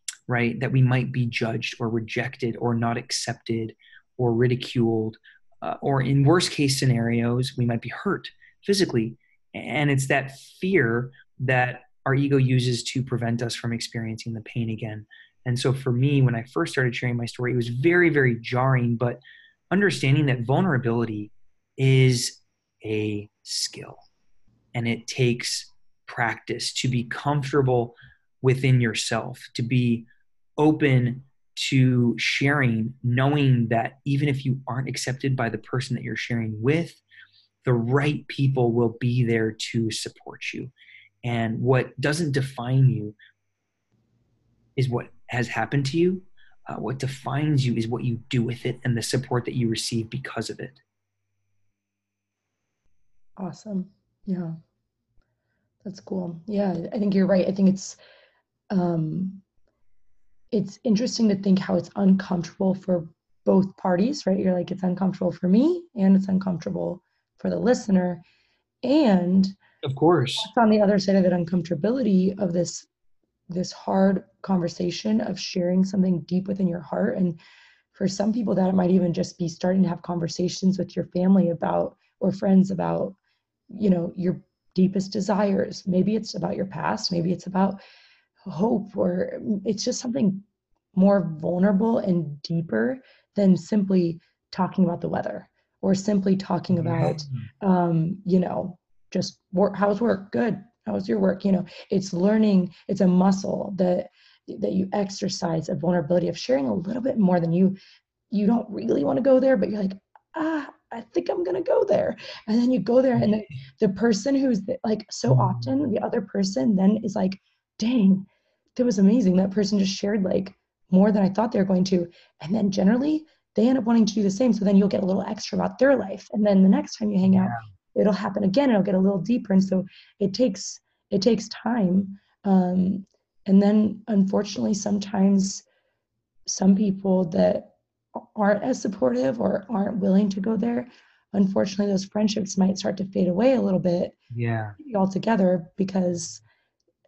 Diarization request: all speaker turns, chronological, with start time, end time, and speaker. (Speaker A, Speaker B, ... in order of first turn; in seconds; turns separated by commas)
Speaker A: 0.3-19.2, Speaker A: 19.7-24.1, Speaker A: 24.8-30.1, Speaker A: 30.6-37.0, Speaker A: 37.6-40.7, Speaker A: 41.2-43.2, Speaker A: 44.8-50.8, Speaker B: 53.4-54.6, Speaker B: 55.8-58.0, Speaker B: 58.7-59.4, Speaker B: 60.5-68.2, Speaker B: 68.8-69.6, Speaker A: 69.8-70.5, Speaker B: 70.4-72.9, Speaker B: 73.5-77.4, Speaker B: 77.9-83.2, Speaker B: 83.7-87.8, Speaker B: 88.5-107.8, Speaker A: 96.7-97.5, Speaker B: 108.3-135.7, Speaker A: 115.3-115.9, Speaker A: 127.2-127.7, Speaker B: 136.5-144.2, Speaker A: 144.3-144.8, Speaker B: 144.8-146.4